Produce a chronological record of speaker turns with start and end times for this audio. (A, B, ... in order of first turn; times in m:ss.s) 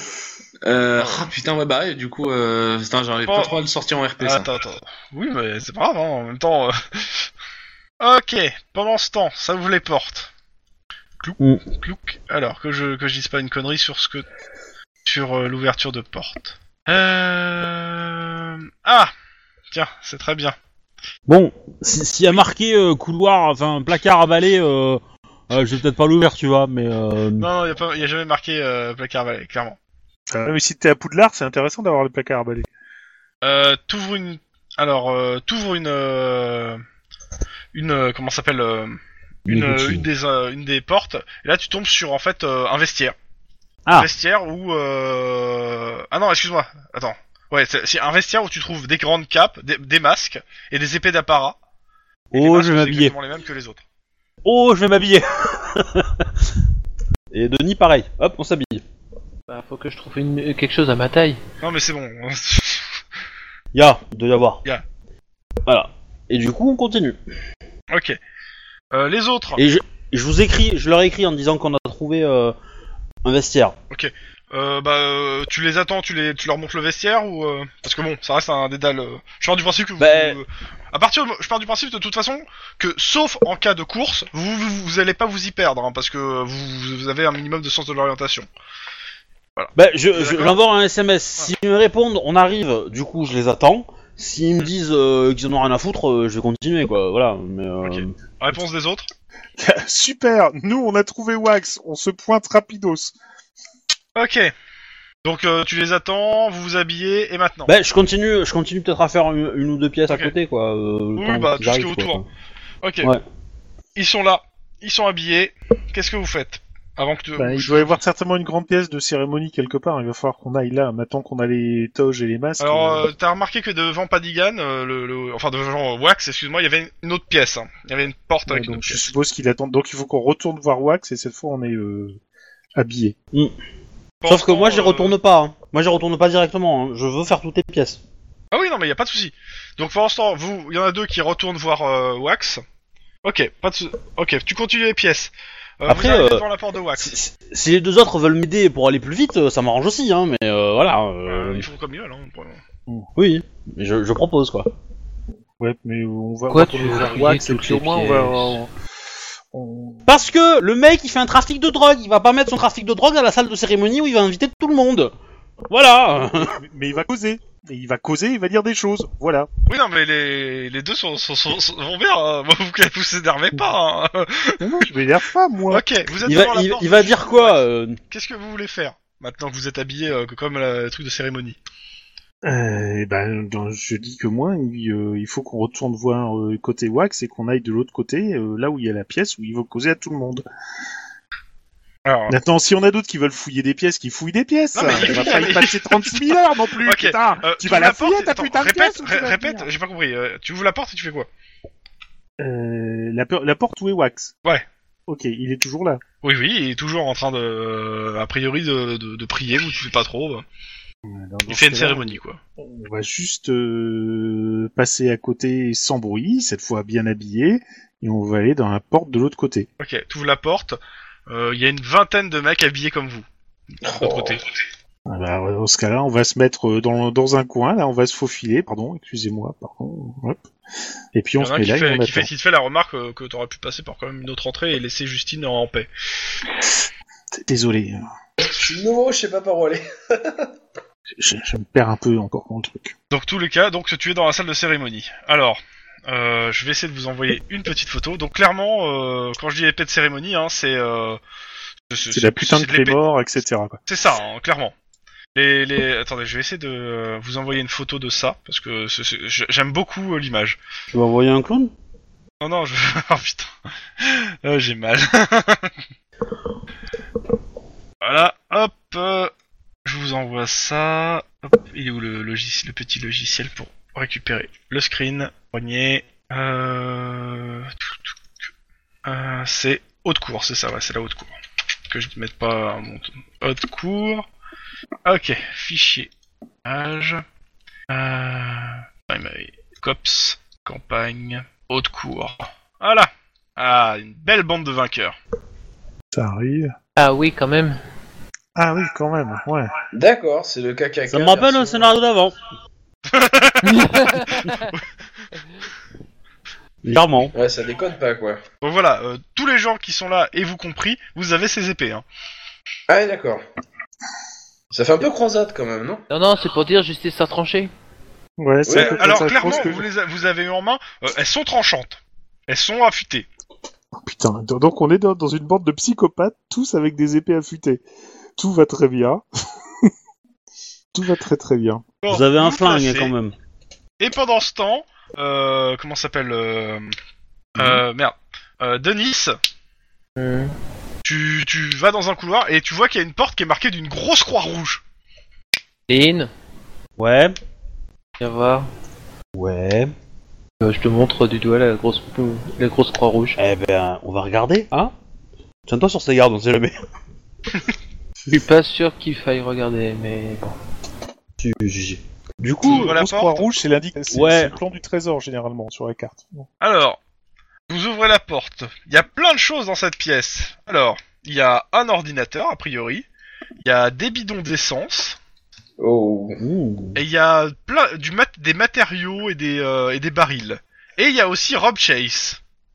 0:00.6-0:04.5 A
0:03.2-0:03.5 B
0:04.2-0:07.3 B
0:08.0-0:10.3 B
0:11.2-0:14.2 B
0:15.0-0:19.1 B
0:19.7-0:20.6 B
0:21.3-0:27.5 C
0:27.4-0:29.8 B
0:30.3-0:32.7 D
0:33.4-0:36.8 B
0:37.7-0:43.2 B
0:39.5-0:40.0 C
0:43.9-0:51.6 B
0:52.3-0:53.1 C
0:52.3-0:53.8 B
0:54.4-0:56.5 C
0:57.3-0:58.8 C
0:59.5-1:01.4 E
1:01.6-1:03.0 B
1:03.7-1:04.6 C
1:05.6-1:07.2 C
1:07.9-1:08.2 B
1:08.9-1:09.6 B
1:09.6-1:12.5 C
1:13.2-1:13.7 C
1:13.9-1:28.5 B
1:20.0-1:20.4 C
1:29.6-1:30.6 B
1:29.7-1:38.1 C
1:37.8-1:39.1 B
1:39.6-1:43.1 D
1:44.1-1:44.5 B
1:45.2-1:47.7 B
1:47.7-1:52.2 C
1:51.2-1:52.2 B
1:52.8-1:53.1 B
1:54.0-1:57.9 B
1:57.4-2:03.1 D
2:02.6-2:09.1 B
2:08.5-2:12.2 D
2:12.7-2:13.2 D
2:14.2-2:15.1 B
2:14.3-2:18.0 C
2:18.5-2:22.6 B
2:23.2-2:27.1 B
2:25.9-2:26.4 C
2:27.0-2:31.6 C
2:31.2-2:32.6 B
2:33.2-2:34.7 C
2:35.6-2:38.7 D
2:36.5-2:38.6 E
2:39.5-2:40.1 D
2:40.0-2:45.1 C
2:45.7-2:46.6 C
2:46.4-2:49.5 D
2:49.7-2:54.6 B
2:54.6-2:55.9 D
2:55.7-3:01.6 B
2:56.2-2:58.0 C
3:02.4-3:10.4 D
3:12.0-3:12.4 B
3:12.3-3:19.7 D
3:14.7-3:16.3 B
3:16.8-3:21.3 B
3:22.4-3:24.3 D
3:25.1-3:26.0 D
3:26.2-3:30.4 B
3:31.0-3:39.7 D
3:31.5-3:32.4 B
3:39.8-3:43.2 B
3:43.8-3:44.4 B
3:43.8-3:44.4 A
3:45.1-3:50.4 D
3:51.1-3:52.3 D
3:51.4-3:55.9 B
3:57.3-3:58.0 D
3:58.4-4:00.5 A
4:01.2-4:02.9 D
4:03.1-4:11.2 B
4:11.9-4:13.0 B
4:12.1-4:13.8 D
4:13.9-4:14.7 B
4:15.3-4:20.6 B
4:20.9-4:21.7 C
4:22.4-4:25.7 B
4:28.0-4:29.3 B
4:29.8-4:38.1 B
4:39.0-4:41.3 B
4:41.9-4:44.3 B
4:45.0-4:46.1 B
4:46.6-4:47.2 B
4:47.9-4:55.2 B
4:56.1-4:56.7 D
4:57.0-4:57.8 E
4:58.6-4:59.7 D
4:59.9-5:02.0 A
5:01.1-5:02.4 C
5:03.1-5:04.9 B
5:03.6-5:04.7 E
5:06.8-5:07.3 C
5:07.3-5:08.4 A
5:08.6-5:12.0 B
5:12.9-5:13.4 A
5:14.7-5:16.0 A
5:16.1-5:17.7 E
5:18.4-5:19.9 D
5:18.6-5:19.7 A
5:18.7-5:23.3 B
5:24.0-5:27.8 D
5:28.4-5:29.2 D
5:30.9-5:31.8 D
5:32.0-5:33.1 B
5:32.1-5:33.3 C
5:34.0-5:36.9 B
5:37.6-5:39.3 B
5:40.2-5:40.5 E
5:41.0-5:44.8 B
5:45.9-5:46.3 E
5:47.0-5:47.3 C
5:48.2-5:48.7 E
5:49.4-5:49.9 C
5:50.6-5:53.4 E
5:53.4-5:54.9 C
5:55.7-5:56.8 C
5:58.3-6:00.5 E
6:01.4-6:02.9 C
6:02.6-6:03.5 B
6:02.6-6:06.5 D
6:04.1-6:04.5 C
6:06.6-6:07.0 B
6:07.7-6:13.0 B
6:13.6-6:15.2 B
6:15.8-6:16.4 A
6:16.4-6:17.0 C
6:16.9-6:22.4 B